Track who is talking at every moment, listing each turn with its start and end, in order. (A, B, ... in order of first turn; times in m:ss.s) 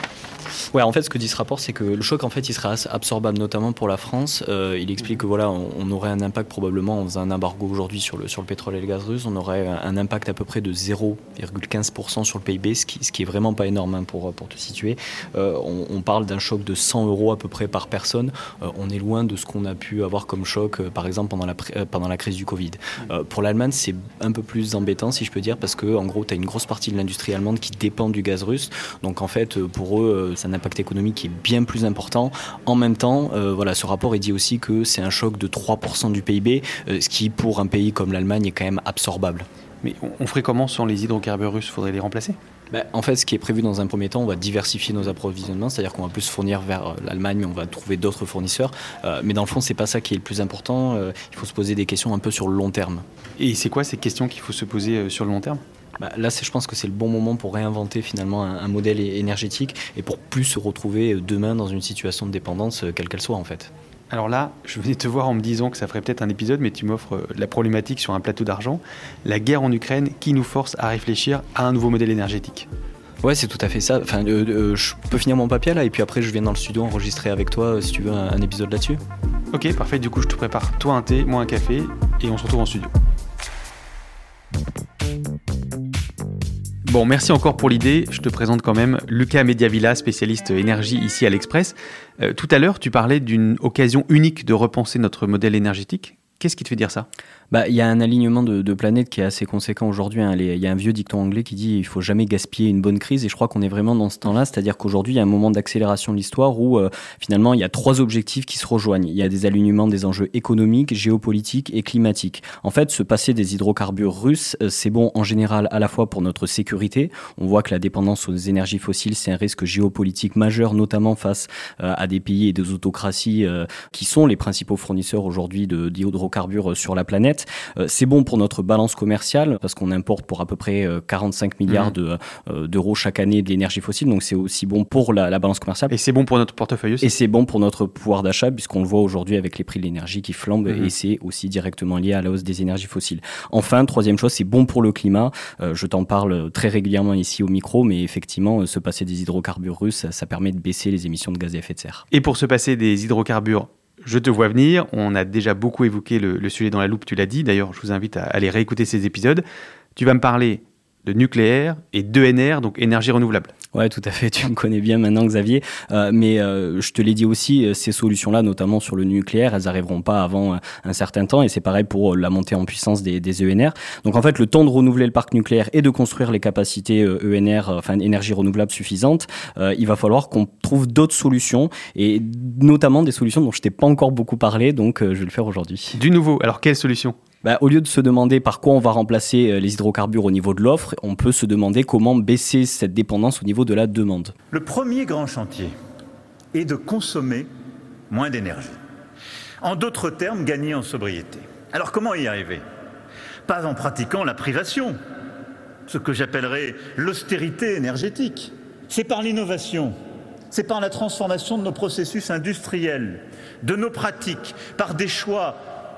0:00.7-0:39.5 A
0:39.8-0:42.4 B
0:42.7-0:53.0 A
0:53.4-0:55.6 B
0:56.0-1:03.7 A
1:04.1-1:12.7 B
1:13.2-1:19.0 A
1:19.5-1:22.9 B
1:26.9-1:37.1 B
1:37.5-2:15.9 A
2:11.7-2:11.9 B
2:15.9-2:17.1 B
2:17.0-2:32.0 A
2:32.1-2:39.4 B
2:40.0-2:43.5 B
2:43.7-3:06.0 A
3:05.9-3:07.2 B
3:07.4-3:14.3 A
3:14.5-3:15.7 C
3:16.5-3:17.5 C
3:18.1-3:18.8 C
3:19.6-3:22.6 C
3:23.5-3:25.0 C
3:25.9-3:29.9 C
3:30.5-3:35.6 C